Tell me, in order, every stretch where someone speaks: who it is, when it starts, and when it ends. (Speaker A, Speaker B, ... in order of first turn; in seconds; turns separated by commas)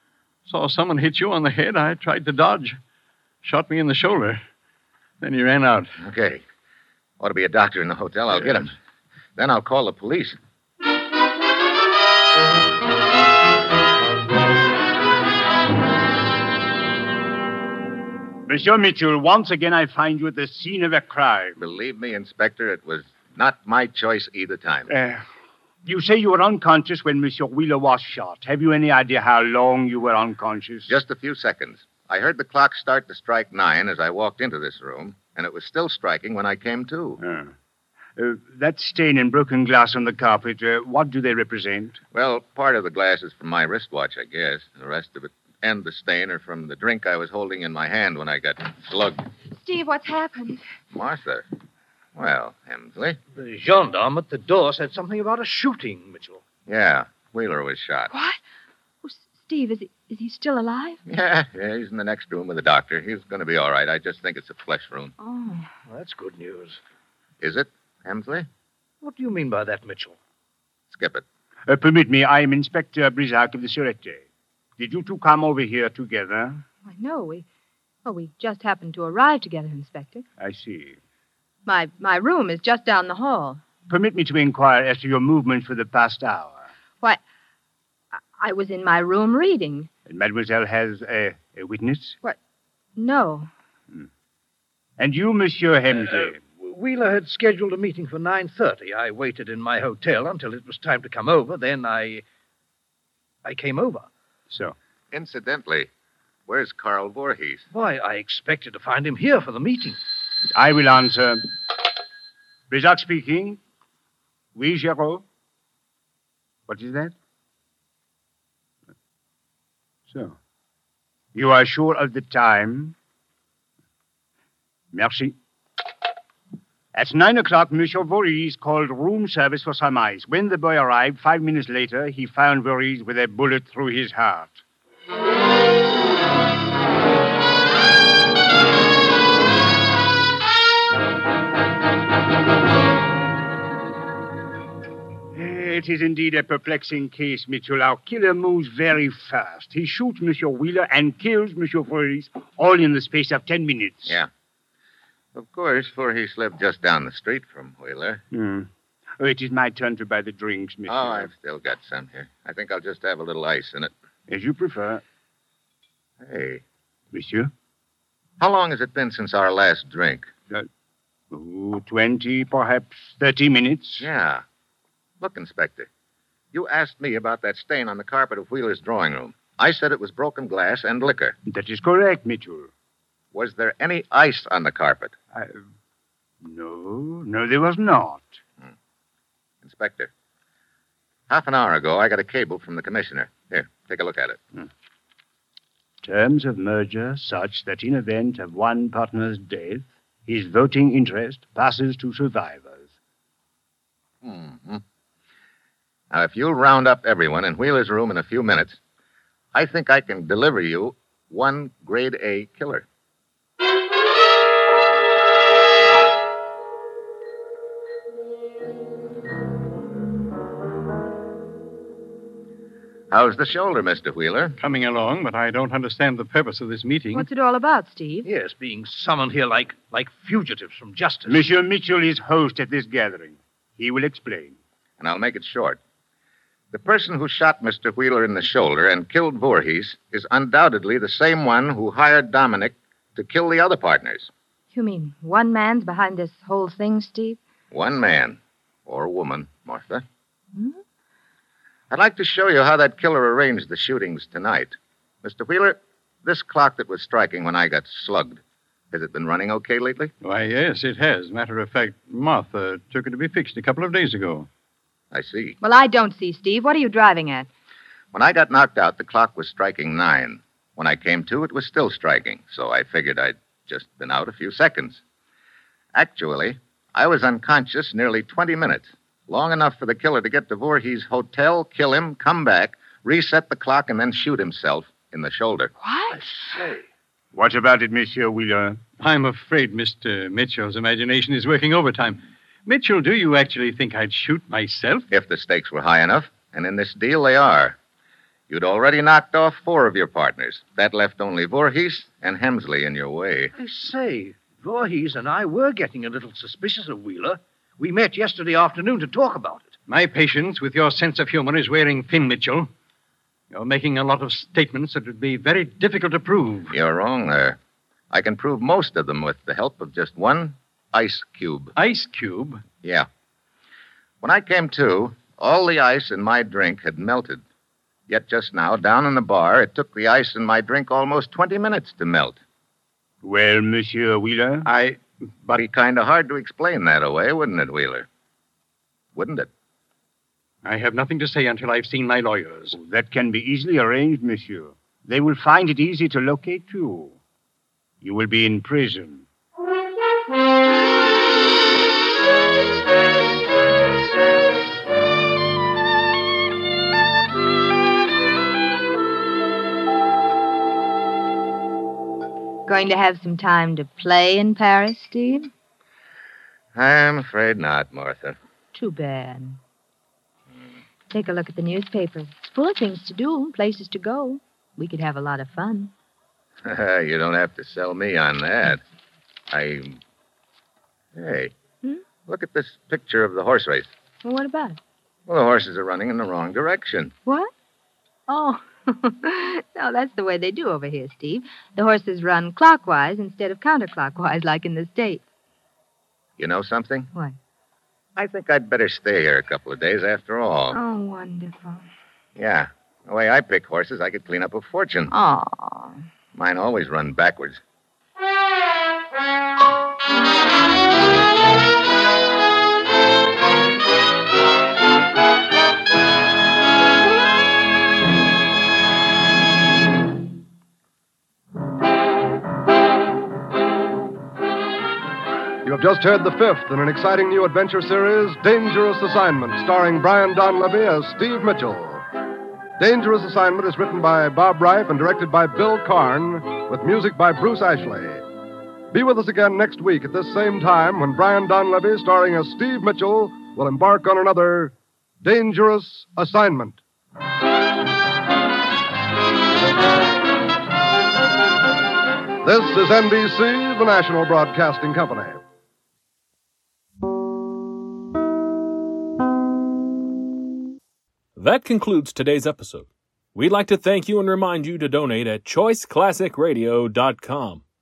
Speaker A: 0.5-2.8, Speaker A: 3.4-4.4, Speaker A: 5.2-6.0, Speaker B: 6.0-6.4, Speaker B: 7.2-8.8, Speaker B: 9.4-10.4, Speaker C: 18.5-21.6, Speaker B: 21.6-24.9, Speaker C: 24.9-25.2, Speaker C: 25.9-30.9, Speaker B: 30.9-37.2, Speaker C: 37.2-37.5, Speaker C: 38.1-42.0, Speaker B: 42.1-49.2, Speaker D: 49.5-50.6, Speaker B: 50.9-51.4, Speaker B: 52.1-53.2, Speaker E: 53.3-56.4, Speaker B: 56.7-58.1, Speaker D: 58.1-58.4, Speaker D: 59.0-61.0, Speaker B: 61.1-65.1, Speaker D: 65.2-65.7, Speaker E: 65.9-66.8, Speaker B: 67.4-68.5, Speaker E: 69.0-70.2, Speaker B: 70.9-71.2, Speaker C: 71.7-74.3, Speaker C: 74.8-76.6, Speaker D: 76.8-77.5, Speaker D: 78.0-80.2, Speaker C: 80.4-81.0, Speaker D: 81.7-83.6, Speaker C: 83.9-86.6, Speaker D: 88.4-89.9, Speaker C: 90.1-92.2, Speaker D: 93.0-93.5, Speaker C: 95.0-96.4, Speaker E: 95.9-102.2, Speaker E: 103.4-104.1, Speaker C: 104.5-104.8, Speaker B: 105.1-105.9, Speaker B: 106.5-107.6, Speaker E: 107.7-110.0, Speaker C: 110.5-111.5, Speaker C: 112.7-113.6, Speaker C: 114.5-115.2, Speaker C: 116.7-117.1, Speaker C: 120.1-120.4, Speaker C: 121.3-123.0, Speaker C: 124.9-125.4, Speaker C: 126.9-134.6, Speaker C: 145.3-154.2, Speaker B: 155.3-158.2, Speaker C: 158.3-161.3, Speaker B: 160.9-163.9, Speaker C: 164.3-165.0, Speaker B: 166.2-166.6, Speaker C: 167.1-167.5, Speaker B: 168.4-170.3, Speaker C: 171.3-174.1, Speaker B: 174.0-174.4, Speaker B: 175.2-175.9, Speaker B: 176.5-181.4, Speaker C: 181.4-182.7, Speaker B: 183.3-185.1, Speaker C: 185.3-185.6, Speaker C: 186.4-188.4, Speaker B: 189.6-190.1, Speaker B: 191.3-194.4, Speaker C: 196.0-202.9, Speaker B: 204.2-204.8, Speaker B: 206.1-208.8, Speaker B: 209.5-212.9, Speaker B: 223.1-224.6, Speaker A: 224.6-227.3, Speaker D: 227.1-228.3, Speaker E: 228.2-231.4, Speaker C: 231.3-234.6, Speaker B: 235.0-235.8, Speaker B: 236.7-244.3, Speaker D: 244.7-247.4, Speaker B: 247.7-250.0, Speaker B: 251.9-258.4, Speaker B: 258.9-260.1, Speaker A: 260.2-264.5, Speaker B: 265.1-265.6, Speaker D: 265.6-267.5, Speaker B: 268.1-275.0, Speaker B: 275.9-285.7, Speaker D: 285.8-286.2, Speaker E: 286.4-286.8, Speaker C: 287.3-288.8, Speaker A: 289.0-295.1, Speaker B: 295.1-297.8, Speaker B: 298.5-303.5, Speaker E: 303.6-309.8, Speaker A: 309.9-312.7, Speaker A: 313.5-316.8, Speaker B: 316.7-317.6, Speaker B: 318.1-321.7, Speaker A: 321.8-322.6, Speaker B: 324.2-327.4, Speaker B: 328.1-332.4, Speaker C: 333.2-334.7, Speaker A: 334.6-335.6, Speaker B: 335.6-338.1, Speaker B: 339.1-339.5, Speaker A: 340.6-342.8, Speaker C: 342.7-347.2, Speaker C: 348.0-349.2, Speaker D: 362.7-365.5, Speaker B: 366.8-368.4, Speaker D: 368.7-369.6, Speaker D: 371.1-375.9, Speaker B: 376.6-378.8, Speaker B: 379.5-380.0, Speaker B: 381.1-381.5, Speaker B: 382.3-383.9, Speaker D: 384.2-384.8, Speaker B: 385.3-387.1, Speaker D: 387.3-387.5, Speaker D: 388.3-395.2, Speaker B: 396.4-397.1, Speaker B: 398.1-400.8, Speaker D: 400.7-401.9, Speaker B: 402.4-405.1, Speaker D: 405.1-406.0, Speaker B: 406.3-407.6, Speaker F: 425.6-432.1, Speaker F: 432.8-438.3, Speaker F: 438.9-446.8, Speaker F: 452.4-455.4, Speaker G: 461.4-467.6